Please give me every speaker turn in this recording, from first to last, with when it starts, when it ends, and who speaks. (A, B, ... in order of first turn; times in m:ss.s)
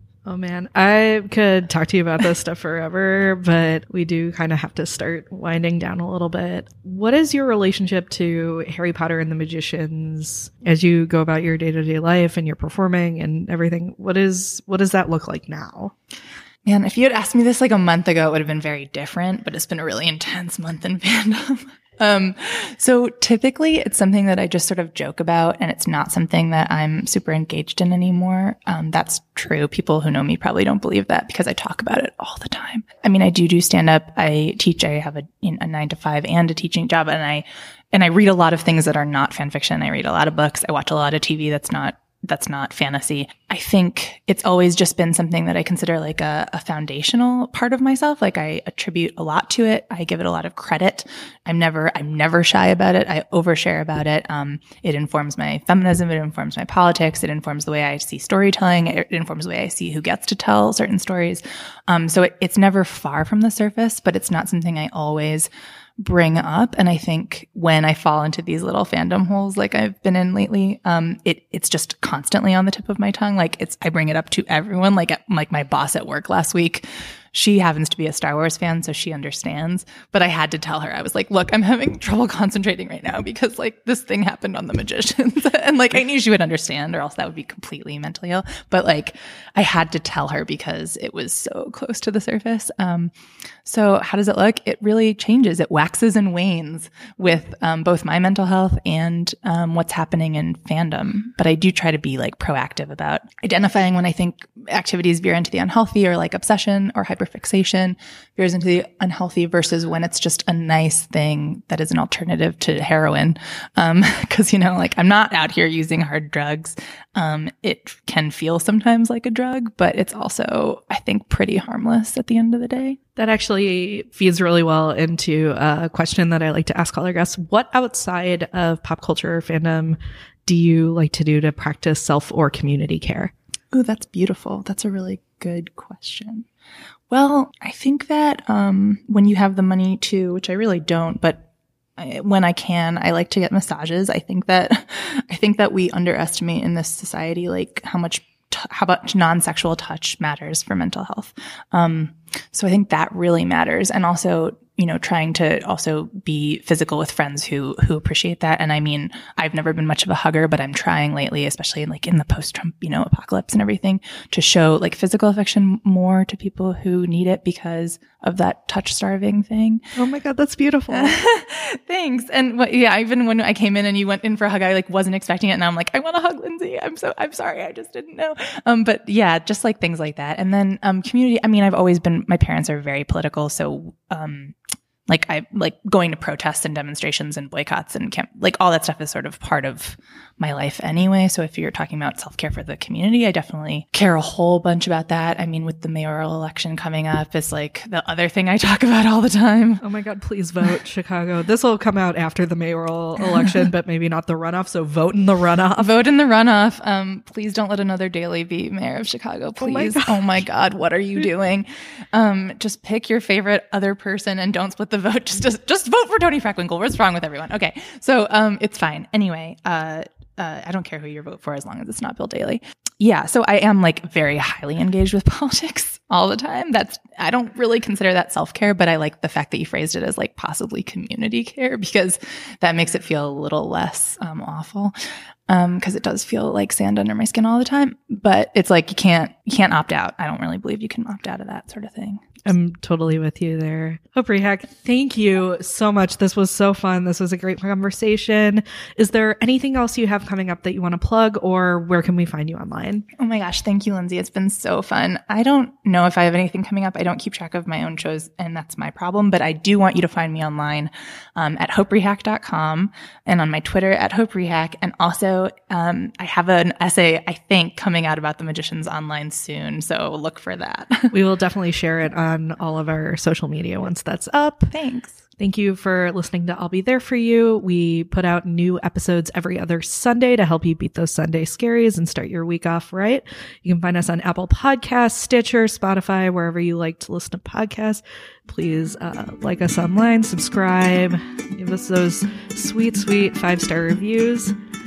0:00.2-0:15.9 A
0:16.6-1:33.1 B
1:33.6-2:03.0 B
2:03.2-2:13.3 A
2:13.7-2:16.4 B
2:17.1-2:21.4 B
2:22.0-2:49.8 B
2:50.0-2:51.2 A
2:50.9-3:04.5 B
3:05.1-3:19.8 B
3:19.8-3:25.9 A
3:25.8-3:54.9 B
3:29.6-3:30.4 A
3:55.5-4:02.4 B
4:02.4-4:13.0 A
4:13.2-4:31.1 B
4:31.1-4:34.7 A
4:34.7-4:35.2 B
4:35.4-4:54.5 A